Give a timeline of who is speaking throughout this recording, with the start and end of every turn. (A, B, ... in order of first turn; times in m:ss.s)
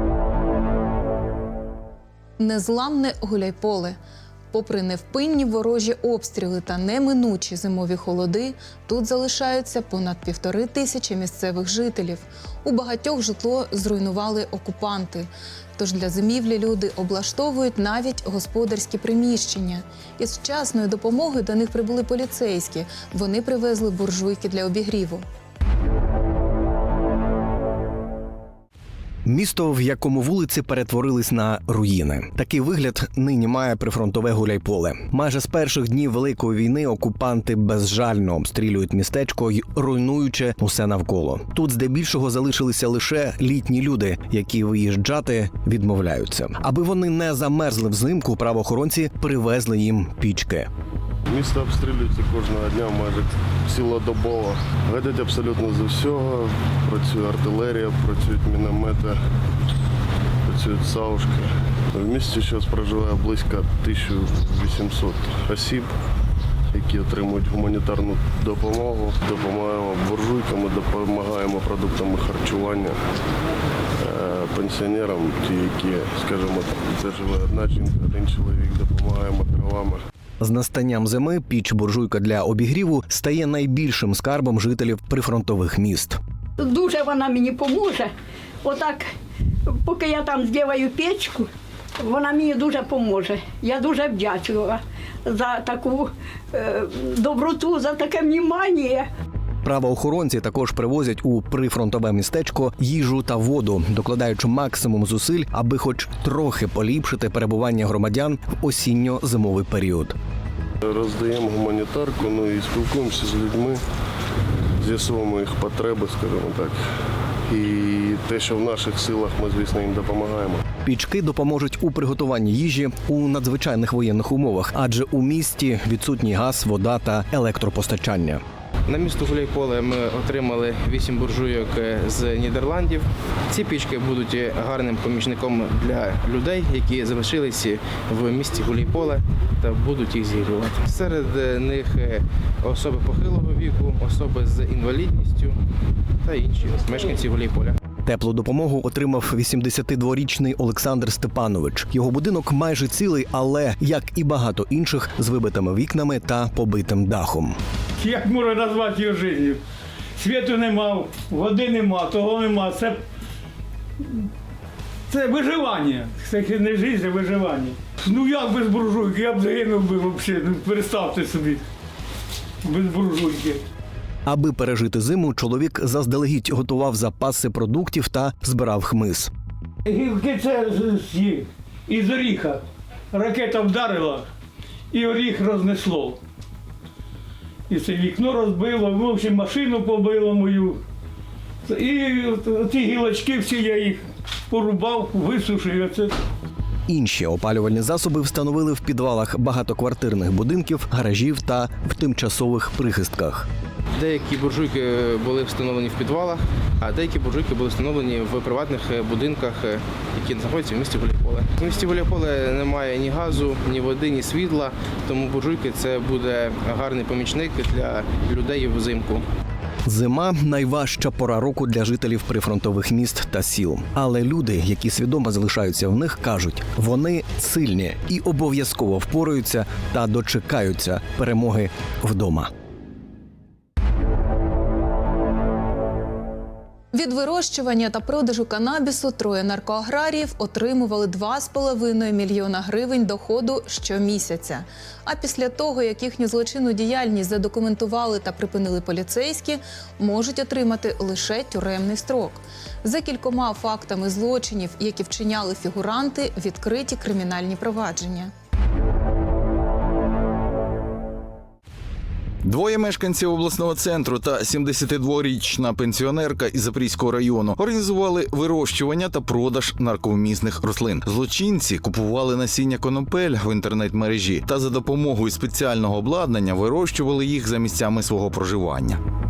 0:02.4-0:04.0 A
0:04.5-0:25.2 A
0:29.2-0:50.7 B
0:51.3-0:59.2 C
1:00.4-1:05.9 C
1:06.7-1:13.0 C
1:14.0-1:20.0 C
1:20.4-1:26.2 B
1:26.6-1:28.1 D
1:28.6-1:29.1 D
1:29.8-1:31.5 D
1:32.0-1:39.1 D
1:39.6-1:50.2 B
1:50.8-1:53.8 C
1:54.8-1:56.8 C
1:57.5-2:00.6 C
2:00.8-2:08.4 B
2:08.9-2:25.6 E
2:26.2-2:27.8 E
2:28.0-2:37.6 B
2:38.0-2:39.6 F
2:40.2-2:43.0 F
2:45.1-2:51.6 F
2:52.6-2:53.6 F
2:54.2-2:59.3 B
2:59.8-3:04.3 F
3:04.9-3:06.2 F
3:07.7-3:10.8 F
3:11.7-3:16.1 F
3:16.9-3:23.5 B
3:24.0-3:39.2 E
3:39.8-3:52.5 B
3:56.9-4:18.3 A
4:22.4-4:39.0 G